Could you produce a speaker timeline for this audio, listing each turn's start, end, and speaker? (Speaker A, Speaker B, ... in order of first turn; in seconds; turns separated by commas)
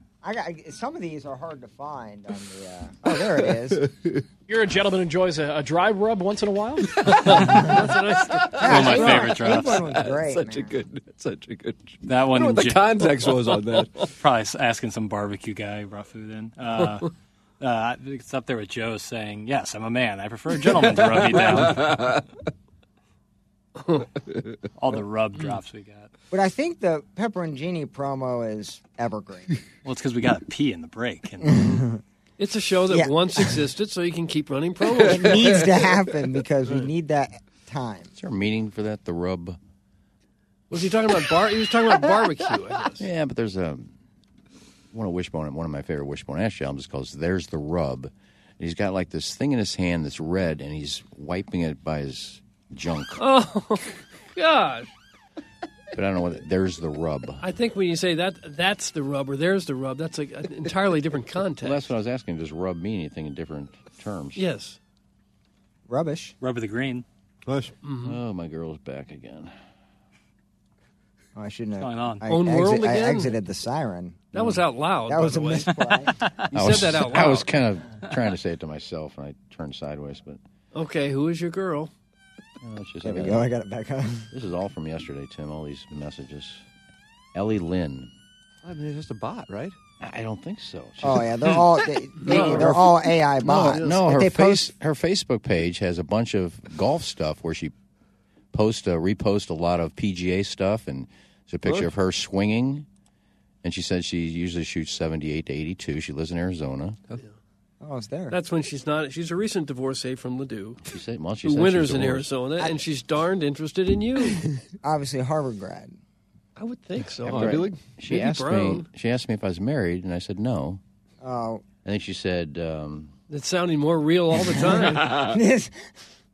Speaker A: 0.2-3.9, Speaker B: 4.5-7.4, Speaker C: 7.1-9.2, Speaker D: 7.3-7.6, Speaker E: 8.3-14.1, Speaker A: 8.6-10.8, Speaker D: 8.6-9.8, Speaker D: 12.1-13.2, Speaker D: 14.2-22.2, Speaker E: 20.7-22.2, Speaker D: 24.8-26.1, Speaker A: 26.3-29.5, Speaker D: 29.9-31.7, Speaker A: 31.4-32.0, Speaker C: 32.4-35.5, Speaker A: 32.9-33.5, Speaker E: 34.9-35.7, Speaker A: 35.0-38.1, Speaker F: 38.2-39.6, Speaker C: 40.7-43.0, Speaker F: 43.0-43.9, Speaker F: 44.9-53.2, Speaker C: 53.2-54.9, Speaker F: 55.9-57.4, Speaker C: 57.4-61.8, Speaker F: 61.6-64.4, Speaker C: 64.4-64.8, Speaker A: 65.9-66.3, Speaker D: 66.4-67.0, Speaker E: 67.5-67.7, Speaker C: 67.8-68.2, Speaker F: 68.0-69.5, Speaker A: 71.4-74.2, Speaker D: 71.8-72.2, Speaker C: 72.3-73.3, Speaker C: 74.3-77.5, Speaker F: 74.3-74.6, Speaker A: 75.1-76.2, Speaker F: 76.5-80.4, Speaker C: 80.7-81.9, Speaker F: 82.6-83.5, Speaker A: 83.0-84.3, Speaker F: 84.3-86.7, Speaker F: 87.3-88.1, Speaker E: 88.6-89.8, Speaker F: 90.0-91.8, Speaker A: 91.0-94.7, Speaker C: 92.2-92.9, Speaker F: 92.4-92.8, Speaker F: 93.4-97.7, Speaker C: 93.5-94.0, Speaker F: 98.5-102.9, Speaker F: 103.6-107.0, Speaker A: 107.8-108.4, Speaker C: 108.3-110.8, Speaker F: 110.8-112.3, Speaker C: 111.4-114.4, Speaker A: 114.8-116.0, Speaker C: 116.6-118.9, Speaker E: 117.2-117.8, Speaker F: 117.3-120.8, Speaker A: 121.2-121.6, Speaker F: 121.8-123.2, Speaker C: 123.3-125.1, Speaker A: 125.1-125.9